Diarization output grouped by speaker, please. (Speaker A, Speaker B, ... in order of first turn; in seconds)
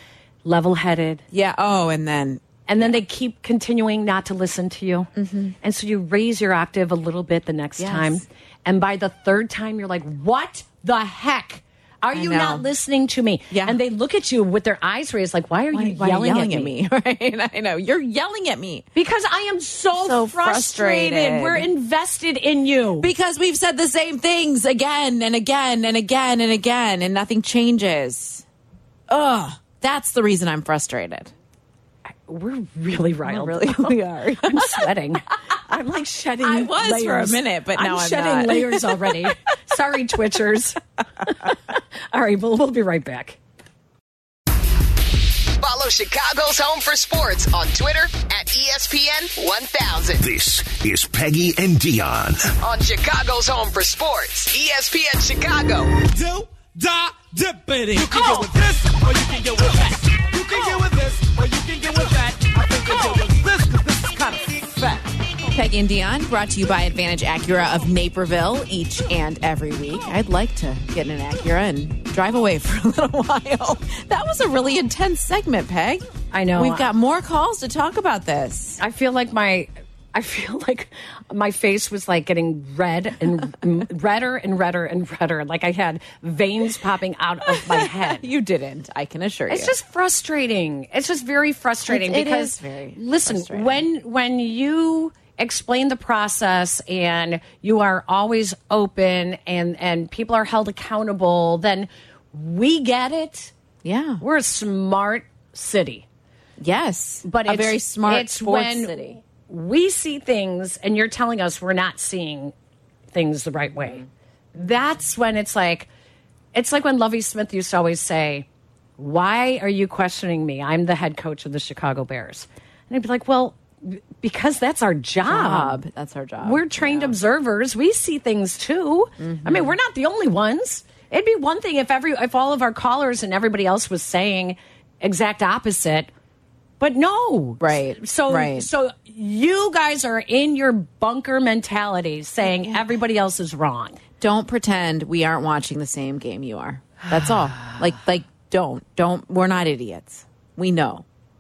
Speaker A: 0.4-1.2, 2.7-5.1, 5.6-16.7, 18.9-23.1, 32.3-43.4, 76.3-76.9, 78.8-88.2, 89.5-103.5, 104.2-106.0, 107.2-112.5, 113.1-115.9, 116.5-118.5, 119.0-125.8, 126.4-136.1, 136.8-144.0, 147.1-147.8
Speaker B: 1.3-3.0, 5.1-5.5, 7.8-8.2, 12.1-12.6, 13.5-13.8, 15.7-18.9, 19.9-21.7, 23.0-28.4, 29.1-31.3, 33.2-34.9, 36.4-39.3, 65.5-78.8, 87.5-89.7, 91.8-93.9, 103.8-104.2, 106.6-109.2, 125.2-127.2, 129.2-129.7, 137.6-138.7, 142.4-142.9, 144.2-151.1
Speaker C: 45.6-50.2, 52.6-56.0
Speaker D: 50.2-52.5
Speaker E: 56.1-65.0